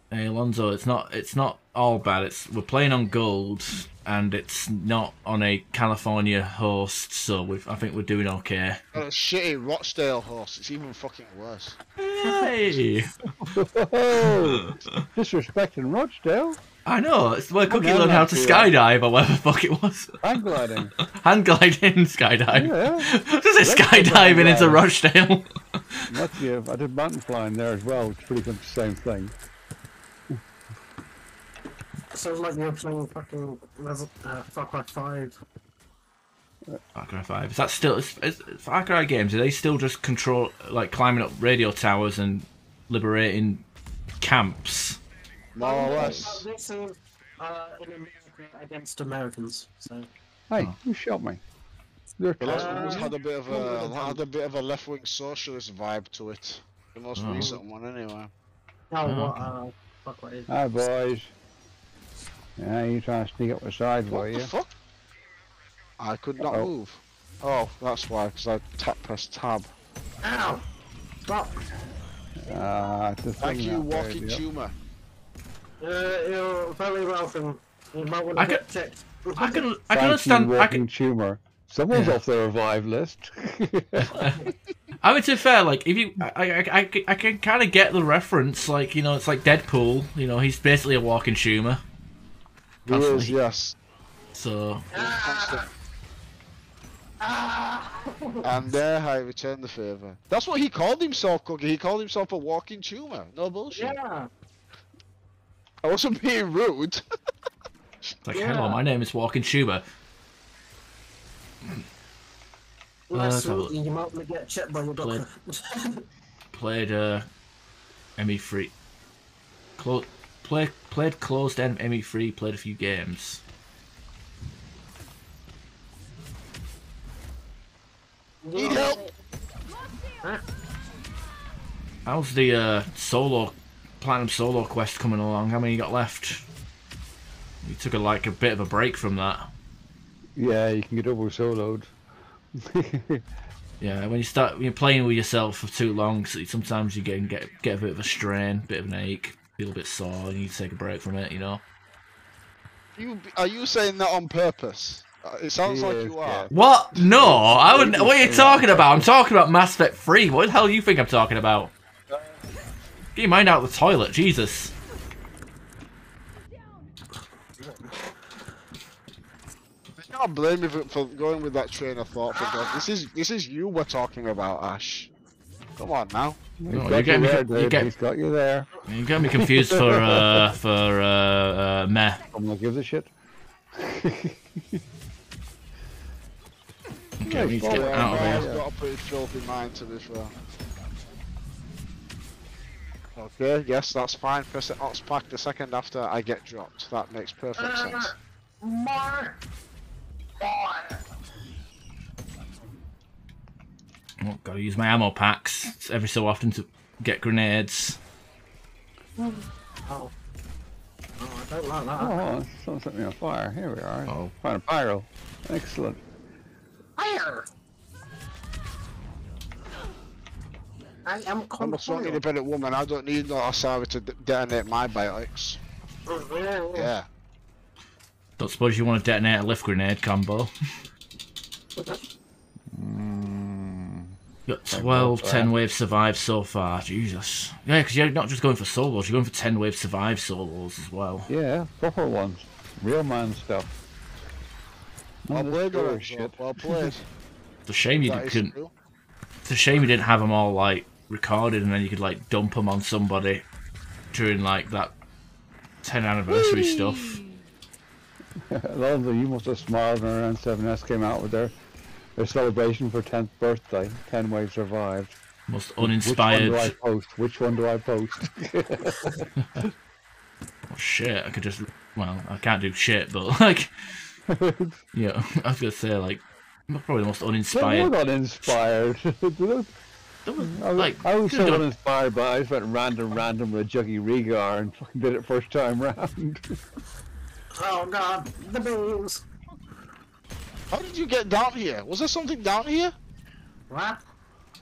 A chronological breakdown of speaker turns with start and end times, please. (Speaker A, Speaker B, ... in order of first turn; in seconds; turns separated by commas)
Speaker A: 0.1-8.8, Speaker B: 8.9-11.8, Speaker A: 12.0-13.1, Speaker C: 12.2-12.5, Speaker D: 13.4-16.6, Speaker A: 14.2-15.0, Speaker A: 16.9-20.2, Speaker D: 17.7-18.7, Speaker D: 20.2-20.9, Speaker A: 21.0-26.1, Speaker D: 22.5-24.9, Speaker D: 26.1-29.3, Speaker C: 32.1-35.4, Speaker A: 37.0-43.7, Speaker A: 44.2-45.0, Speaker B: 45.5-46.5, Speaker C: 45.6-50.1, Speaker D: 50.5-51.4, Speaker D: 52.2-53.1, Speaker B: 52.4-58.3, Speaker C: 52.5-54.2, Speaker A: 57.2-57.5, Speaker C: 58.9-60.9, Speaker A: 59.0-59.5, Speaker D: 60.5-61.3, Speaker D: 62.6-64.5, Speaker B: 64.1-64.7, Speaker B: 66.0-69.7, Speaker D: 66.4-66.7, Speaker C: 70.2-70.6, Speaker C: 71.3-71.6, Speaker D: 72.4-74.4, Speaker B: 73.4-74.7, Speaker C: 75.8-79.7, Speaker A: 78.3-78.6, Speaker A: 79.4-80.8, Speaker D: 79.9-84.2, Speaker A: 81.9-82.2, Speaker A: 84.1-84.4, Speaker C: 84.2-84.5, Speaker A: 85.0-91.8, Speaker B: 92.9-93.8, Speaker A: 92.9-93.3, Speaker A: 94.3-94.9, Speaker C: 94.9-95.7, Speaker B: 94.9-95.7, Speaker C: 97.2-98.5, Speaker B: 98.4-104.0, Speaker C: 103.7-104.3, Speaker B: 105.8-107.0, Speaker A: 108.2-109.8, Speaker C: 108.3-108.8, Speaker C: 113.1-116.1, Speaker A: 113.1-113.7, Speaker A: 116.5-117.3, Speaker A: 118.2-118.7, Speaker A: 119.8-123.4, Speaker C: 128.4-129.1, Speaker B: 128.6-129.0, Speaker A: 132.1-136.4, Speaker A: 137.6-139.5, Speaker D: 140.4-141.9, Speaker D: 142.5-143.2, Speaker A: 143.8-151.6, Speaker B: 153.0-156.5, Speaker D: 155.6-156.5, Speaker A: 156.5-161.7, Speaker B: 157.0-157.4, Speaker D: 157.1-159.1, Speaker A: 163.2-164.7, Speaker C: 167.6-168.0, Speaker B: 170.0-175.1, Speaker C: 172.3-172.9, Speaker B: 175.8-176.4, Speaker D: 176.6-180.5, Speaker A: 176.7-177.9, Speaker A: 178.9-182.2, Speaker D: 182.3-183.1, Speaker D: 183.7-184.8, Speaker A: 187.2-188.5, Speaker D: 187.2-188.7, Speaker B: 187.5-190.3, Speaker B: 193.2-198.1, Speaker C: 197.6-199.4, Speaker C: 200.4-201.0, Speaker A: 204.2-208.0, Speaker C: 209.2-210.1, Speaker C: 211.2-212.3, Speaker D: 211.9-216.0, Speaker A: 214.1-214.3, Speaker C: 217.0-217.5, Speaker C: 221.1-222.2, Speaker B: 221.6-225.6, Speaker C: 226.1-226.9, Speaker B: 226.8-227.1, Speaker A: 228.4-230.5, Speaker D: 232.7-234.2, Speaker A: 234.5-241.3, Speaker D: 234.7-235.5, Speaker D: 241.3-243.8, Speaker D: 245.3-246.9, Speaker B: 245.3-247.1, Speaker A: 247.7-248.5, Speaker B: 248.0-248.7, Speaker A: 249.4-253.4, Speaker A: 254.1-254.9, Speaker A: 255.8-257.2, Speaker B: 256.5-257.4, Speaker D: 258.4-261.5, Speaker D: 262.2-265.2, Speaker A: 265.5-266.7, Speaker D: 265.8-269.7, Speaker A: 270.7-274.1, Speaker D: 274.3-274.8, Speaker A: 274.9-277.9, Speaker D: 277.5-279.7, Speaker A: 280.3-281.6, Speaker D: 280.4-286.6, Speaker C: 287.6-289.2, Speaker B: 290.7-292.9, Speaker C: 293.7-294.0